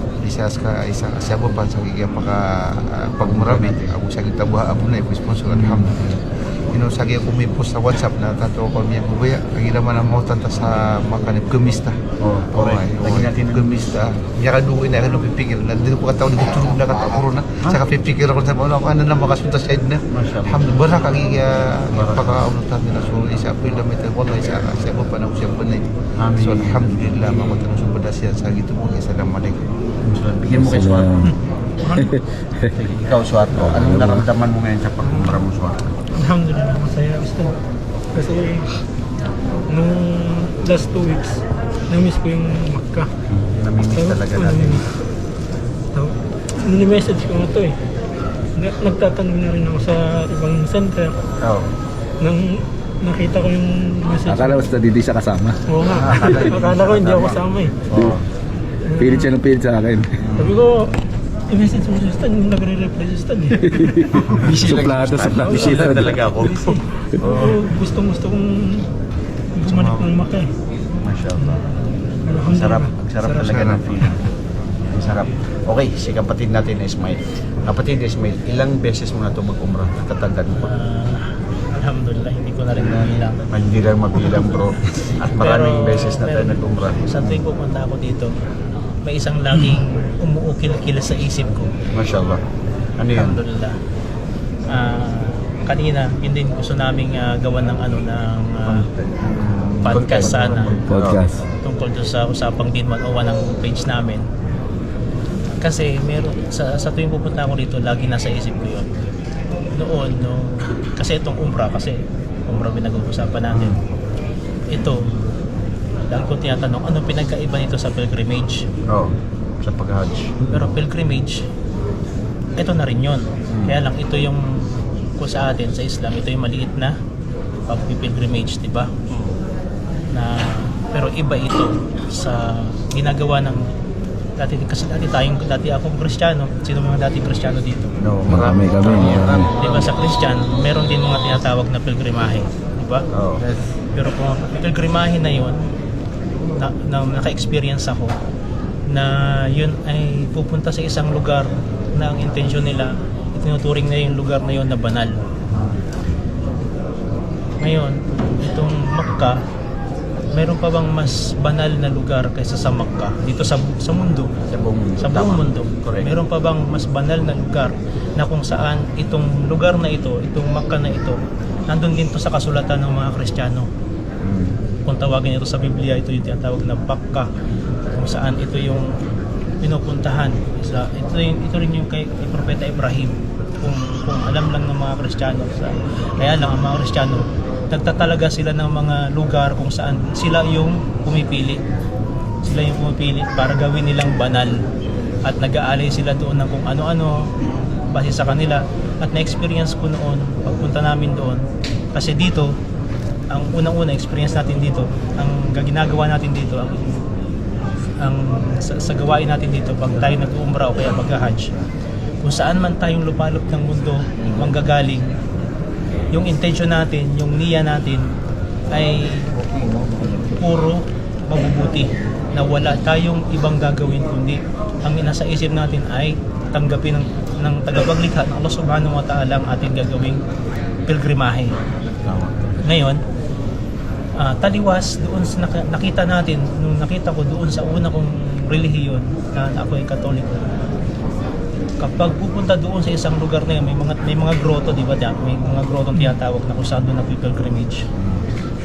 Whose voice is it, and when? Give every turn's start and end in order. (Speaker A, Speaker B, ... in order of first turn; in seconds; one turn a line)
Speaker A: 0.2-12.0
Speaker B: 3.2-3.9
Speaker B: 5.5-6.0
Speaker B: 12.2-13.9
Speaker A: 12.5-25.8
Speaker B: 20.1-20.7
Speaker B: 21.9-22.5
Speaker B: 26.2-27.7
Speaker A: 26.4-29.6
Speaker B: 30.0-31.3
Speaker C: 30.7-31.0
Speaker A: 30.8-31.3
Speaker D: 31.8-32.1
Speaker C: 32.0-32.7
Speaker B: 32.7-36.0
Speaker C: 33.8-34.1
Speaker D: 36.1-37.6
Speaker D: 38.1-38.8
Speaker D: 39.7-43.1
Speaker B: 43.3-44.9
Speaker D: 43.8-44.8
Speaker D: 45.9-47.8
Speaker D: 48.6-51.2
Speaker B: 51.4-51.7
Speaker D: 52.2-54.7
Speaker C: 54.3-55.6
Speaker D: 55.7-57.8
Speaker B: 55.9-58.2
Speaker D: 58.9-59.3
Speaker C: 59.0-60.3
Speaker B: 60.2-60.6
Speaker D: 60.3-61.0
Speaker D: 61.5-64.6
Speaker C: 63.7-66.0
Speaker B: 64.3-66.8
Speaker D: 65.3-68.9
Speaker A: 65.5-66.0
Speaker A: 67.2-67.5
Speaker D: 69.6-70.5
Speaker A: 69.7-70.1
Speaker B: 71.0-71.7
Speaker D: 72.2-73.4
Speaker B: 72.4-74.3
Speaker A: 73.4-74.0
Speaker B: 74.9-80.7
Speaker E: 80.5-83.4
Speaker B: 82.8-87.4
Speaker E: 85.3-88.3
Speaker E: 89.0-91.7
Speaker B: 91.9-92.4
Speaker B: 93.0-93.4
Speaker E: 93.1-93.8
Speaker E: 94.7-98.9
Speaker B: 99.3-101.3
Speaker E: 99.8-100.8
Speaker A: 100.5-101.3
Speaker C: 100.9-101.4
Speaker E: 101.6-104.3
Speaker E: 105.6-108.9
Speaker E: 109.8-113.8
Speaker B: 113.5-113.8
Speaker E: 114.7-115.0
Speaker E: 116.1-118.6
Speaker B: 118.9-120.6
Speaker E: 120.5-121.4
Speaker E: 122.6-127.0
Speaker B: 123.5-123.8
Speaker E: 127.7-129.0
Speaker E: 130.1-133.7
Speaker E: 134.4-137.9
Speaker B: 138.0-139.9
Speaker C: 138.3-139.5
Speaker A: 138.4-139.2
Speaker E: 139.0-143.1
Speaker B: 143.1-143.4
Speaker E: 143.9-145.6
Speaker E: 146.6-148.1
Speaker E: 148.9-155.2
Speaker B: 155.5-155.8
Speaker E: 157.6-159.4
Speaker E: 160.3-164.3
Speaker B: 164.5-166.1
Speaker E: 165.0-173.7
Speaker B: 174.2-174.6
Speaker E: 174.9-177.3
Speaker E: 177.9-178.9
Speaker E: 179.6-191.6
Speaker E: 192.4-194.6
Speaker E: 195.3-197.2
Speaker E: 197.9-201.4
Speaker E: 201.9-202.5
Speaker E: 203.3-207.1
Speaker E: 208.0-211.5
Speaker E: 212.2-215.1
Speaker E: 216.1-218.1
Speaker E: 218.7-219.3
Speaker E: 220.2-230.2
Speaker E: 230.9-231.5
Speaker B: 232.1-232.7
Speaker E: 232.6-233.0
Speaker E: 234.2-240.5
Speaker E: 241.8-247.8
Speaker B: 248.0-248.3